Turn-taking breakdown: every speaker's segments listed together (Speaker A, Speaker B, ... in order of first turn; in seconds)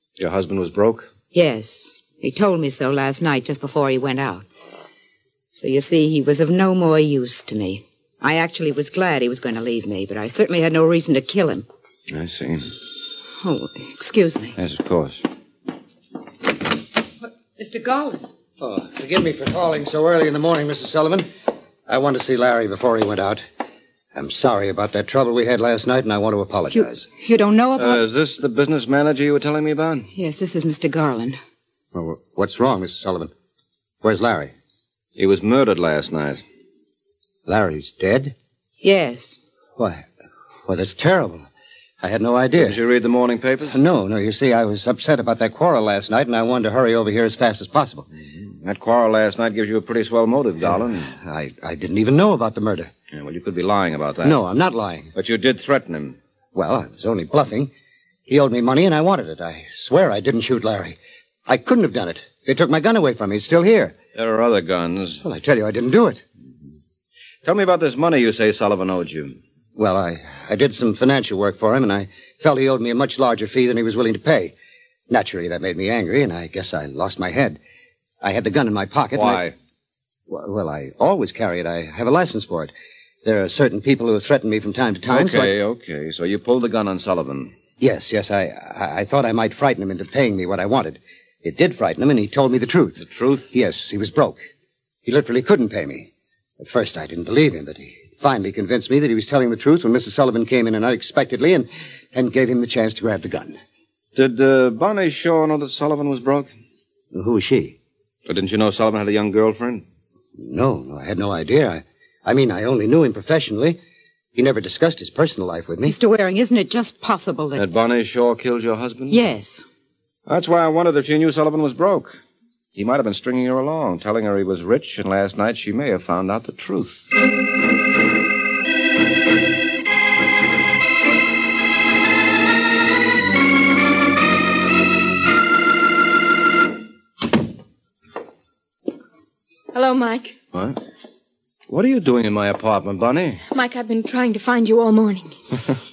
Speaker A: 0.2-1.1, 12.1-12.8, 14.6-15.2, 27.8-30.1, 35.2-36.4, 42.6-43.8, 48.4-51.1, 53.1-54.4, 55.1-56.2, 64.2-65.2, 67.4-69.4, 79.1-79.5, 85.1-87.5, 93.0-93.5, 104.2-106.5, 108.3-109.8, 117.6-119.2, 120.3-122.2, 122.8-127.1, 140.5-140.8, 141.7-143.4
Speaker B: 1.3-4.5, 5.5-11.7, 13.4-14.6, 17.2-18.2, 26.7-28.0, 30.1-31.4, 38.8-39.4, 115.9-117.7, 119.1-119.7
Speaker C: 18.6-21.3, 21.9-23.4, 24.1-27.1, 31.9-33.3, 34.0-34.5, 37.5-38.3, 39.8-40.1, 40.7-41.5, 42.0-42.8, 43.7-48.1, 51.1-52.9, 54.2-55.1, 56.5-57.7, 58.3-64.0, 65.2-66.2, 69.8-74.5, 75.1-77.6, 78.2-79.5, 80.3-82.7, 83.2-85.5, 87.8-93.0, 93.5-94.5, 95.0-103.6, 107.1-107.8, 110.4-113.8, 114.3-116.0
Speaker D: 139.7-140.4, 143.5-145.3